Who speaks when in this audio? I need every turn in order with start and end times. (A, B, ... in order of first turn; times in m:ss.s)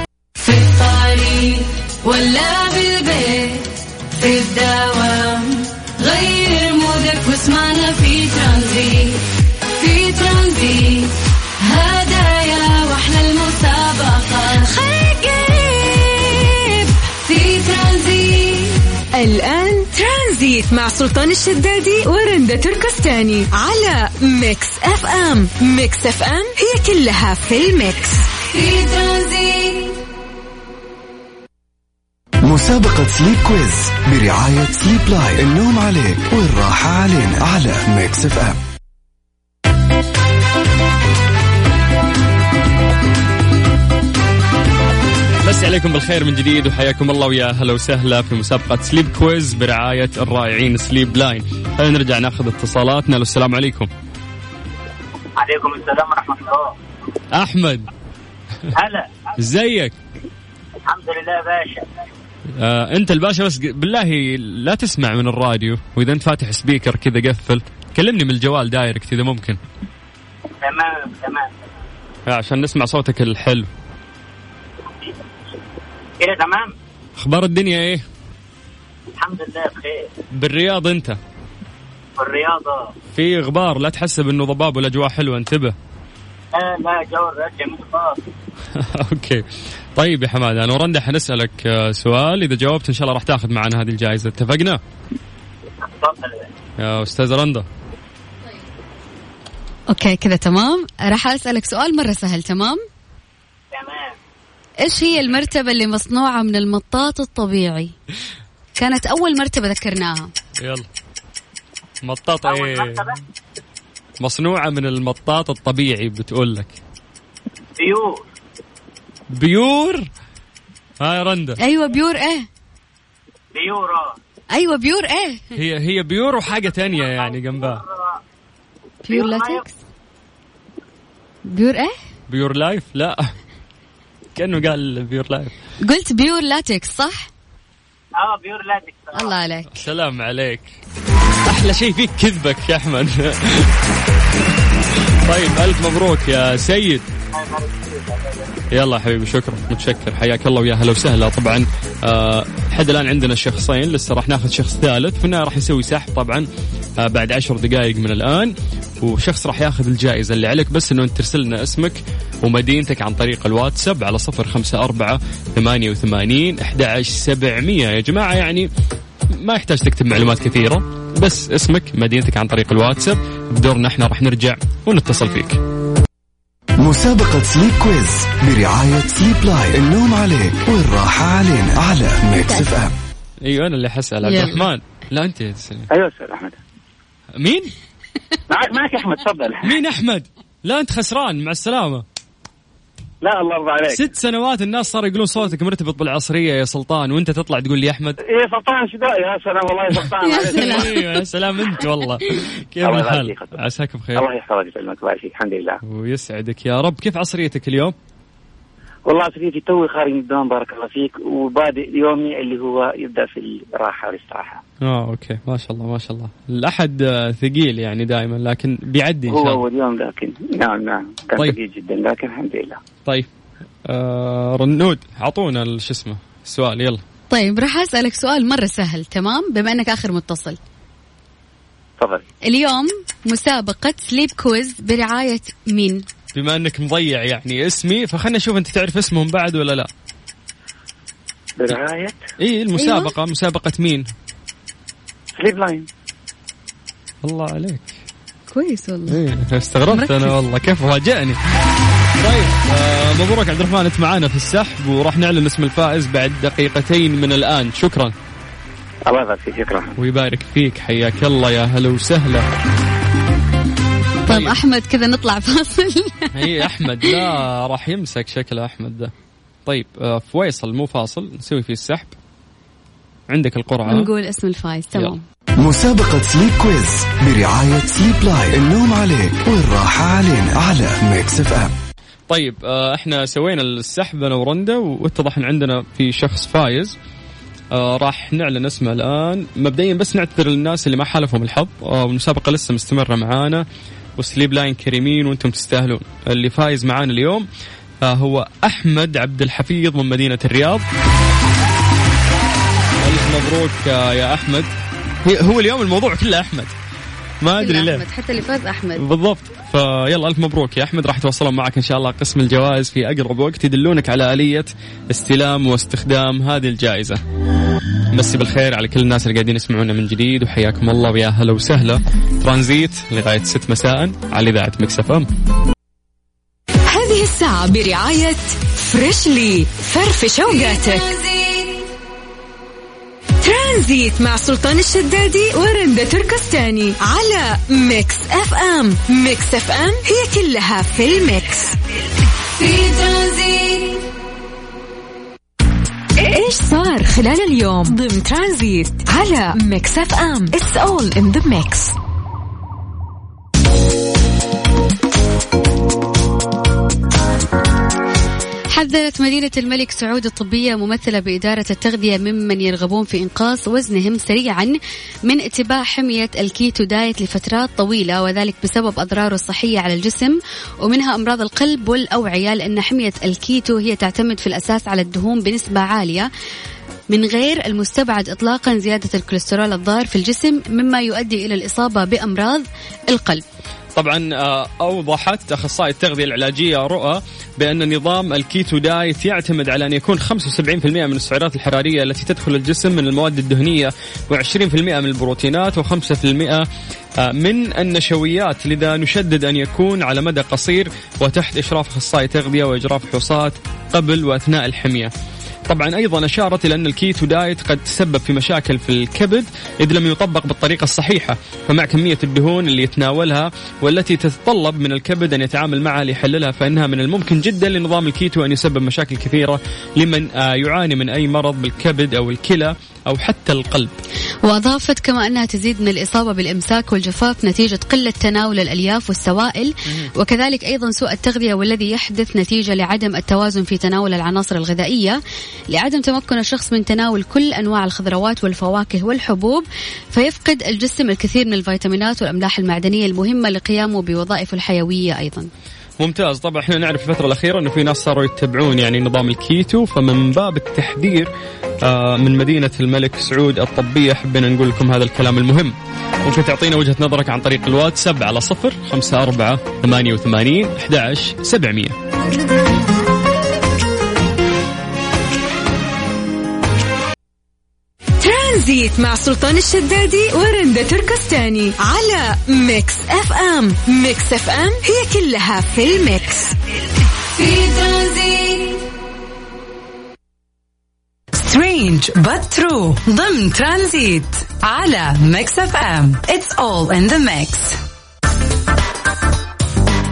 0:00.4-0:09.2 A
0:09.8-0:14.7 A
0:14.6-0:16.9 B
0:17.2-0:18.8 A
0:19.1-0:28.2 B
0:28.5-0:30.0 A
0:32.4-0:38.6 C
0:45.4-0:53.9 D
0:55.4-0:56.7 E
0:57.3-0:57.9 D
0:58.7-0:59.3 E
0:59.4-0:59.9 D
1:00.8-1:02.0 E
1:02.6-1:09.6 D
1:10.6-1:11.6 E
1:12.2-1:13.7 D
1:16.2-1:16.7 E
1:17.2-1:18.0 D
1:19.2-1:20.1 E
1:20.3-1:21.2 D
1:22.2-1:22.9 E
1:23.1-1:25.7 D
1:26.5-1:28.2 E
1:28.7-1:29.4 D
1:30.0-1:34.8 D
1:35.9-1:36.5 E
1:36.8-1:37.6 D
1:39.9-1:42.8 F
1:43.7-1:44.2 E
1:44.8-1:47.9 F
1:48.8-1:50.3 F
1:50.6-1:50.8 D
1:52.0-1:53.1 D
1:52.4-1:53.2 E
1:54.2-1:56.8 D
1:57.8-1:58.3 E
1:59.3-2:00.1 D
2:01.0-2:01.6 D
2:01.6-2:02.4 F
2:03.5-2:04.2 E
2:04.5-2:05.5 F
2:05.5-2:07.8 D
2:06.9-2:08.2 E
2:09.0-2:09.7 F
2:09.1-2:09.6 E
2:11.4-2:12.0 F
2:12.3-2:13.3 D
2:14.3-2:15.5 D
2:15.8-2:17.3 F
2:18.2-2:19.4 E
2:19.1-2:19.7 F
2:19.7-2:20.8 D
2:21.4-2:23.7 D
2:25.2-2:27.0 D
2:27.3-2:28.5 E
2:28.7-2:36.5 D
2:37.0-2:48.7 D
2:49.3-2:55.6 D
2:56.8-3:02.9 C
3:03.4-3:05.9 D
3:04.2-3:04.6 F
3:05.9-3:06.6 G
3:07.4-3:07.7 D
3:08.5-3:09.8 G
3:09.6-3:12.0 D
3:13.2-3:14.1 G
3:13.9-3:18.2 D
3:18.2-3:21.0 G
3:20.2-3:21.3 F
3:20.4-3:24.2 D
3:22.8-3:23.6 G
3:24.2-3:25.8 G
3:25.8-3:27.9 D
3:29.1-3:34.6 G
3:34.8-3:39.6 D
3:39.3-3:42.8 G
3:43.8-3:47.0 D
3:47.3-3:50.6 F
3:52.0-3:52.2 G
3:52.5-3:56.0 F
3:56.3-3:59.9 D
4:01.6-4:02.2 G
4:02.4-4:04.0 D
4:02.7-4:03.1 F
4:05.4-4:05.9 G
4:07.2-4:07.9 D
4:08.5-4:09.2 F
4:09.1-4:11.4 D
4:09.9-4:10.3 F
4:12.2-4:18.1 D
4:19.1-4:19.9 G
4:20.0-4:22.4 D
4:24.3-4:24.6 D
4:24.3-4:27.2 F
4:26.3-4:29.1 D
4:29.6-4:32.1 D
4:33.3-4:34.1 D
4:33.8-4:35.2 F
4:35.6-4:41.7 C
4:42.3-4:46.9 D
4:47.7-4:53.6 D
4:54.2-4:57.4 D
4:58.0-5:00.8 D
5:03.0-5:04.7 D
5:05.2-5:06.7 D
5:07.4-5:08.0 D
5:07.5-5:09.0 F
5:09.0-5:17.2 D
5:18.1-5:25.3 D
5:26.9-5:31.1 B
5:30.4-5:31.9 A
5:33.4-5:41.7 B
5:42.5-5:44.0 A
5:46.2-5:51.9 B
5:58.7-6:16.3 F
6:17.1-6:23.4 F
6:23.9-6:36.6 D
6:37.2-6:45.1 D
6:45.7-7:04.0 D
7:04.4-7:15.2 F
7:15.7-7:25.5 F
7:26.0-7:31.3 D
7:31.8-7:41.9 D
7:48.2-7:56.5 B
7:57.3-7:58.8 A
8:01.3-8:07.8 H